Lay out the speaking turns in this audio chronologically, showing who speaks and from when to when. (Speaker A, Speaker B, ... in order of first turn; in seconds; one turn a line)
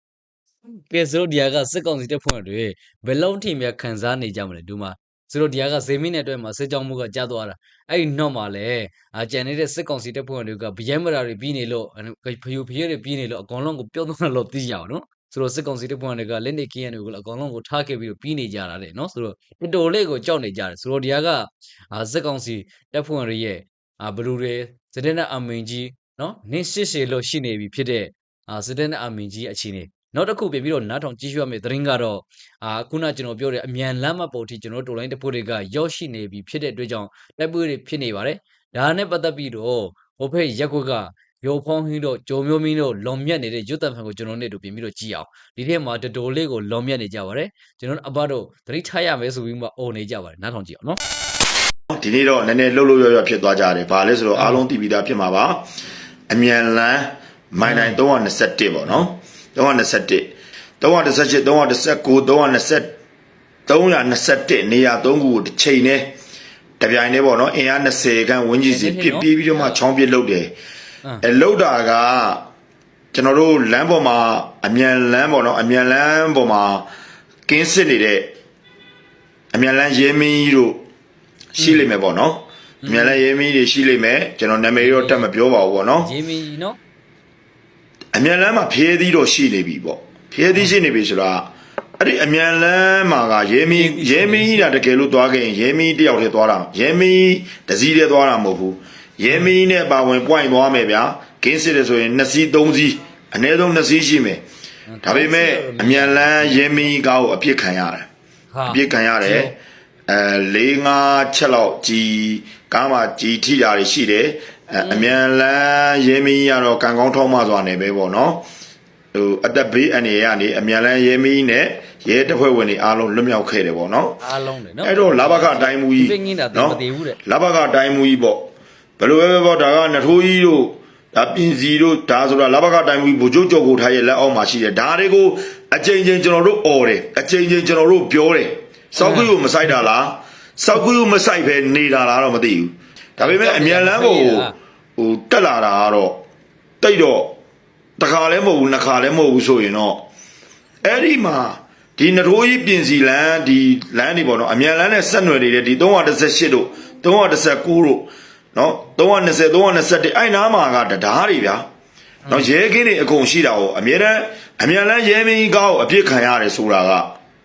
Speaker A: 0.7-51.0
Speaker B: 51.9-55.6
Speaker A: 54.3-54.6
Speaker B: 56.3-62.9
Speaker A: 57.6-58.0
Speaker B: 63.7-66.1
Speaker B: 66.8-70.5
Speaker A: 68.7-69.8
Speaker B: 71.2-72.4
Speaker B: 73.1-76.8
Speaker B: 77.5-78.3
Speaker B: 79.5-80.8
Speaker B: 81.5-86.1
Speaker A: 81.6-81.8
Speaker A: 82.8-83.2
Speaker A: 84.8-85.3
Speaker A: 86.0-86.8
Speaker B: 88.1-104.4
Speaker A: 93.7-94.9
Speaker A: 104.9-106.9
Speaker B: 105.0-108.1
Speaker A: 108.5-109.5
Speaker B: 108.7-109.5
Speaker B: 110.1-118.4
Speaker A: 114.8-115.2
Speaker B: 119.1-124.2
Speaker A: 124.2-127.2
Speaker B: 124.8-128.4
Speaker B: 129.0-146.2
Speaker A: 139.0-139.3
Speaker A: 143.2-144.5
Speaker B: 146.8-147.3
Speaker B: 148.0-150.0
Speaker B: 150.8-161.7
Speaker A: 162.2-162.5
Speaker B: 162.3-167.1